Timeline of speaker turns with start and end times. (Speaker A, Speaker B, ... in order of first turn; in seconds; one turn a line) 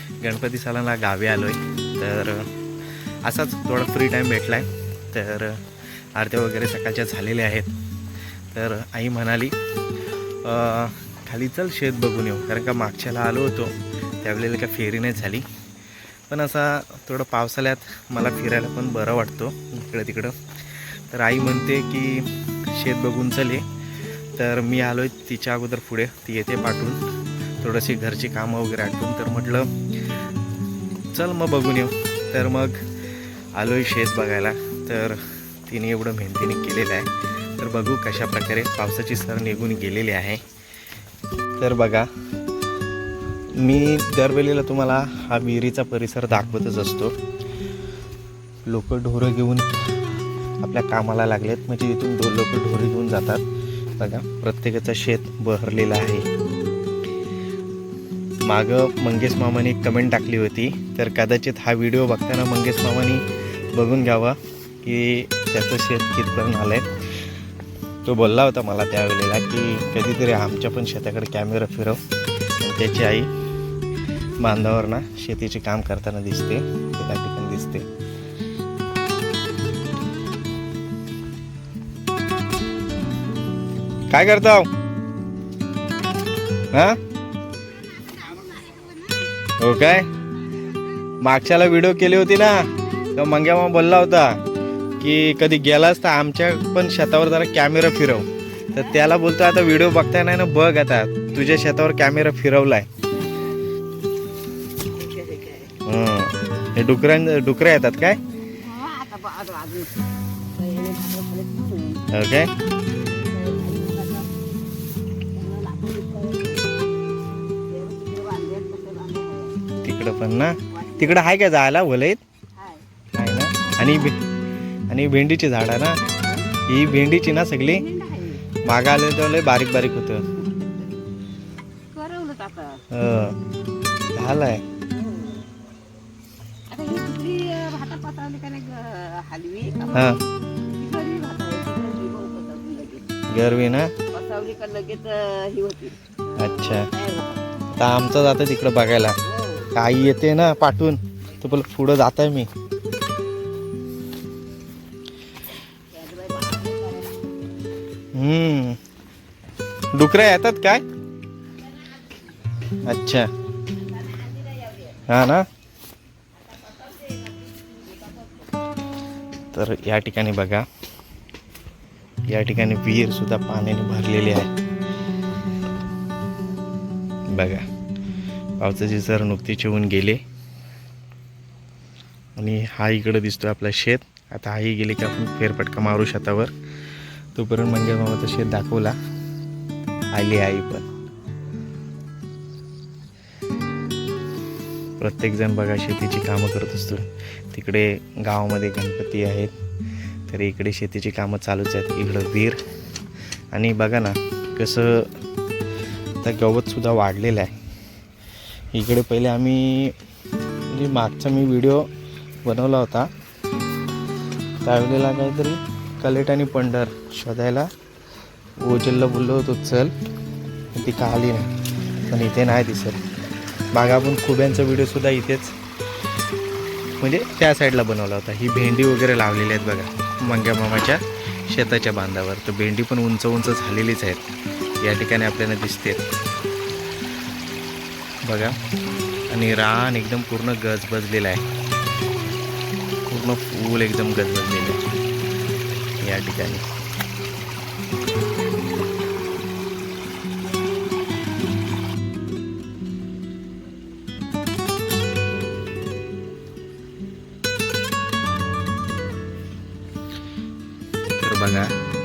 Speaker A: 0.2-2.5
Speaker A: 3.2-5.6
Speaker A: 6.2-7.7
Speaker A: 8.5-9.5
Speaker A: 10.4-15.4
Speaker A: 16.3-23.6
Speaker A: 24.4-27.0
Speaker A: 27.6-29.8
Speaker A: 31.1-32.8
Speaker A: 33.5-40.4
Speaker A: 41.6-42.1
Speaker A: 43.5-47.1
Speaker A: 48.6-49.7
Speaker A: 50.6-53.4
Speaker A: 54.0-56.3
Speaker A: 58.5-66.9
Speaker A: 68.0-72.0
Speaker A: 72.6-73.3
Speaker A: 74.4-77.9
Speaker A: 84.1-84.7
Speaker A: 86.7-87.0
Speaker B: 87.7-89.3
Speaker A: 89.6-90.1
Speaker A: 91.2-94.4
Speaker A: 95.0-102.9
Speaker B: 105.0-105.7
Speaker A: 105.8-108.2
Speaker B: 108.6-112.0
Speaker A: 112.1-112.5
Speaker B: 113.3-114.3
Speaker B: 115.3-116.7
Speaker B: 117.7-119.6
Speaker A: 119.8-122.2
Speaker B: 120.7-121.3
Speaker B: 122.6-122.8
Speaker A: 123.2-124.2
Speaker A: 124.9-126.0
Speaker A: 126.7-127.8
Speaker B: 127.7-128.4
Speaker A: 128.7-130.2
Speaker B: 130.4-130.9
Speaker B: 131.9-132.8
Speaker A: 132.9-133.3
Speaker A: 134.2-134.6
Speaker B: 134.9-135.3
Speaker B: 136.7-143.1
Speaker A: 139.9-140.2
Speaker A: 143.3-143.9
Speaker B: 144.0-147.4
Speaker A: 146.4-146.9
Speaker A: 147.8-149.2
Speaker A: 149.7-152.5
Speaker B: 155.9-157.3
Speaker A: 158.2-158.8
Speaker A: 159.9-160.8
Speaker A: 162.8-163.3
Speaker B: 163.9-165.0
Speaker A: 165.1-165.5
Speaker B: 166.6-168.4
Speaker A: 169.5-170.7
Speaker A: 172.3-174.5
Speaker A: 177.3-177.7
Speaker A: 178.6-180.2
Speaker A: 182.4-186.5
Speaker A: 187.3-188.9
Speaker A: 190.1-190.9
Speaker A: 195.0-199.5
Speaker A: 200.3-202.6
Speaker A: 203.5-205.2
Speaker A: 206.2-207.5
Speaker A: 208.7-210.0
Speaker A: 210.7-211.9
Speaker A: 212.4-213.1
Speaker A: 214.6-217.7
Speaker A: 218.6-219.9
Speaker A: 220.7-221.5
Speaker A: 222.1-223.0
Speaker A: 223.7-225.6
Speaker A: 227.0-234.2
Speaker A: 234.8-236.1
Speaker A: 238.2-238.5
Speaker A: 239.3-241.4
Speaker A: 243.1-244.8
Speaker A: 246.0-246.7
Speaker A: 261.2-261.7